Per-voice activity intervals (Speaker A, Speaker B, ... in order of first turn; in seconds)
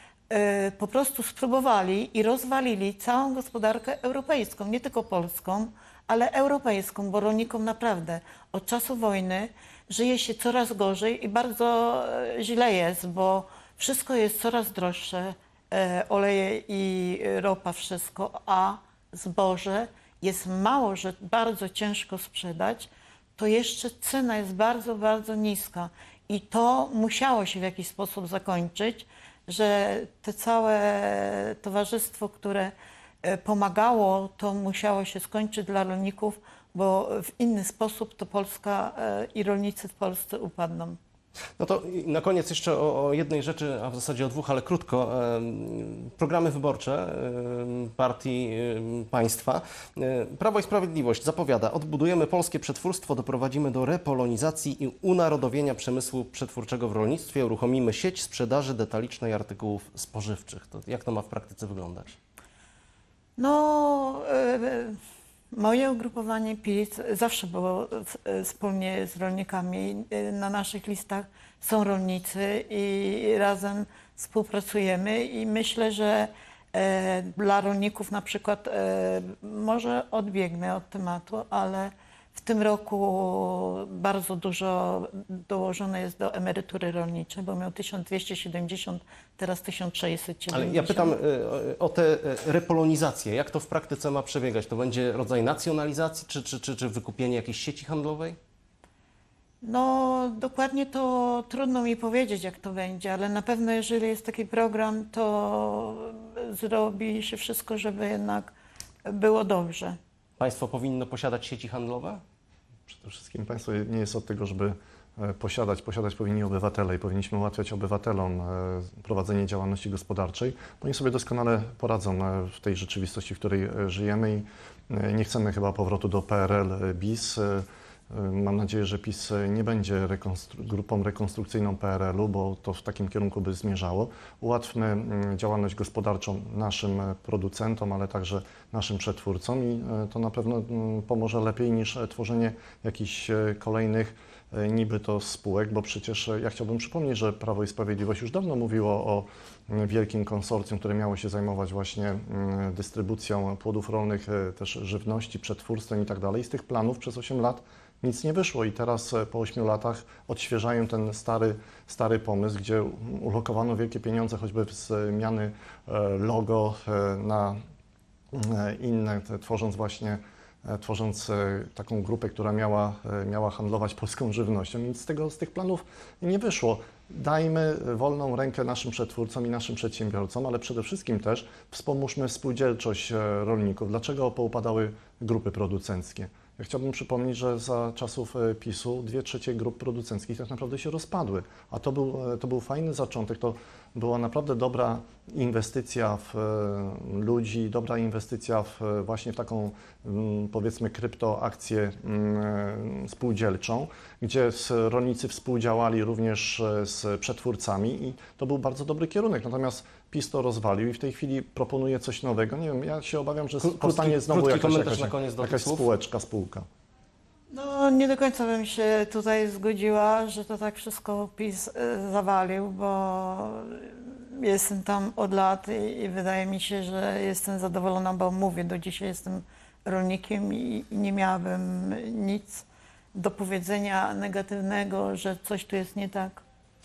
Speaker A: 0.3-41.0, 63.4-65.0, 65.5-91.1, 99.6-108.5, 109.0-110.0, 217.5-236.4
Speaker B: 41.6-62.1, 90.5-98.4, 110.4-112.2, 213.6-215.9
Speaker C: 112.9-167.6, 168.3-216.7